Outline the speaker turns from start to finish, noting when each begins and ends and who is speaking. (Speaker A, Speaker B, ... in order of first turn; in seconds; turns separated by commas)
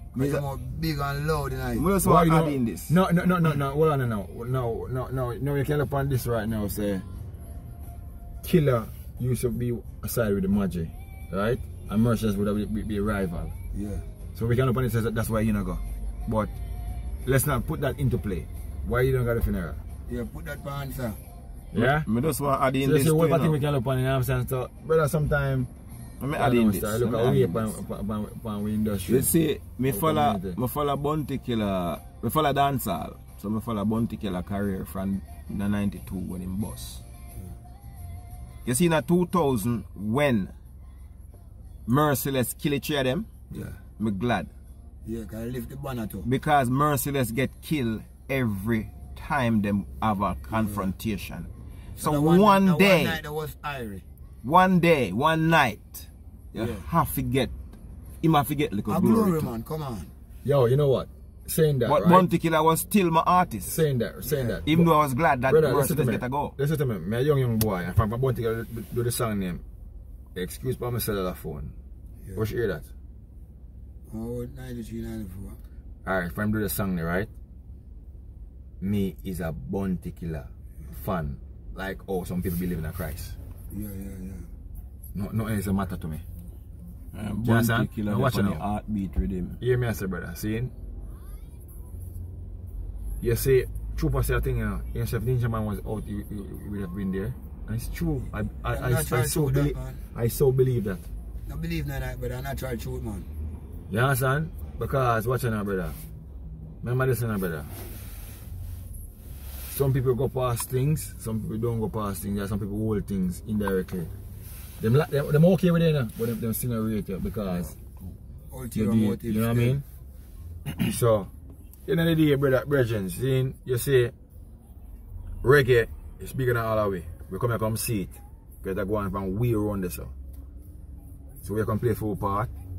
Speaker A: 0.1-1.9, Speaker B: 0.1-0.4, Speaker B: 1.8-3.0, Speaker C: 2.0-7.1, Speaker C: 8.4-13.5, Speaker A: 13.7-14.0, Speaker C: 14.3-16.5, Speaker C: 17.2-19.8, Speaker A: 20.1-21.2, Speaker C: 21.7-22.1, Speaker B: 21.7-23.6, Speaker C: 22.8-25.7, Speaker B: 26.2-27.8, Speaker C: 26.4-29.3, Speaker B: 29.1-37.0, Speaker C: 29.8-30.6, Speaker B: 38.6-40.5, Speaker B: 41.9-43.3, Speaker B: 44.0-44.5, Speaker A: 45.0-46.3, Speaker B: 46.2-53.2, Speaker A: 50.5-50.9, Speaker A: 52.0-54.0, Speaker B: 54.4-57.5, Speaker A: 56.6-56.8, Speaker B: 58.2-59.5, Speaker A: 58.9-60.1, Speaker C: 60.4-62.3, Speaker B: 61.9-63.8, Speaker C: 63.6-64.9, Speaker A: 64.2-64.6, Speaker B: 64.7-66.5, Speaker C: 65.4-69.6, Speaker C: 70.3-71.7, Speaker C: 72.4-72.9, Speaker A: 74.1-75.6, Speaker C: 76.0-77.3, Speaker C: 78.8-83.4, Speaker A: 83.7-84.5, Speaker C: 85.1-86.2, Speaker B: 87.1-89.6, Speaker C: 87.4-88.6, Speaker C: 89.6-90.7, Speaker C: 93.2-101.1, Speaker A: 98.7-100.0, Speaker A: 101.5-103.3, Speaker C: 103.9-106.0, Speaker C: 106.8-107.7, Speaker C: 109.7-114.1, Speaker C: 114.8-117.8, Speaker A: 118.5-119.8, Speaker C: 118.7-119.8, Speaker C: 120.8-121.3, Speaker C: 121.9-124.1, Speaker C: 125.4-130.1, Speaker C: 131.4-132.5